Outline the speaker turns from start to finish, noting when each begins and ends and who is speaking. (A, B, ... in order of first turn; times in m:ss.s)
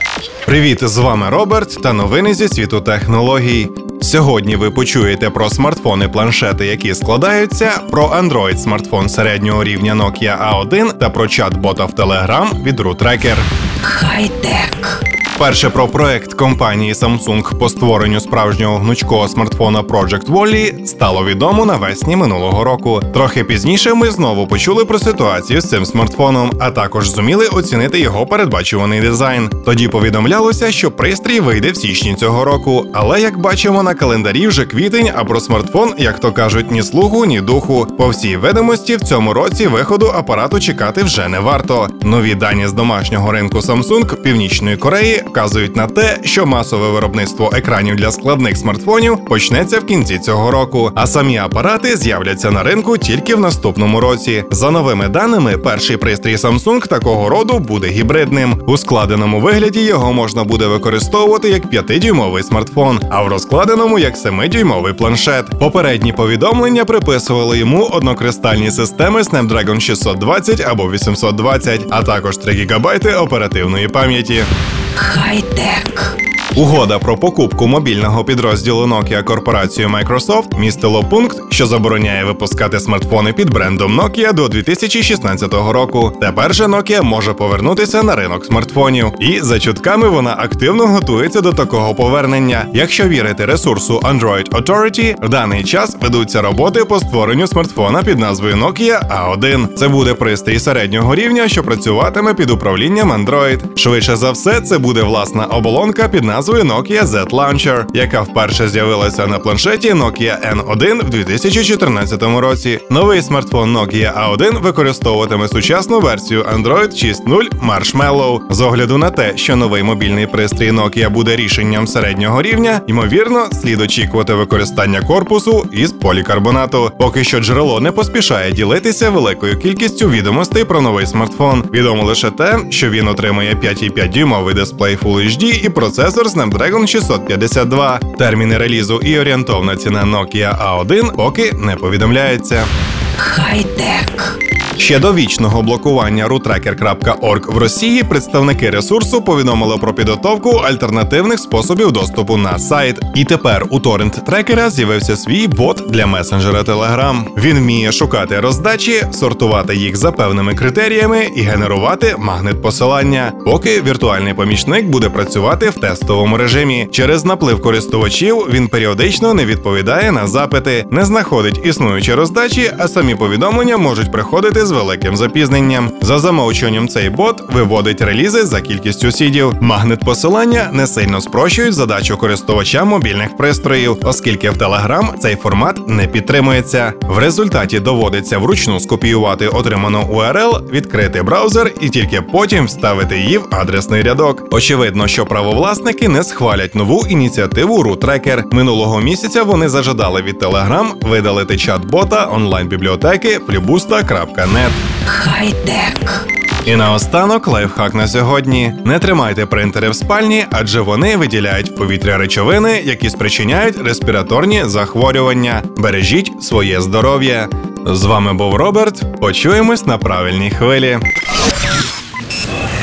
0:00.4-0:13.5 A
0:13.9-0:14.7 B
0:15.4-1:14.5 A
1:15.0-1:15.9 B
1:16.6-2:22.7 A
2:23.2-2:24.2 B
2:24.8-3:24.8 A
3:25.1-3:26.0 B
3:26.6-3:41.0 A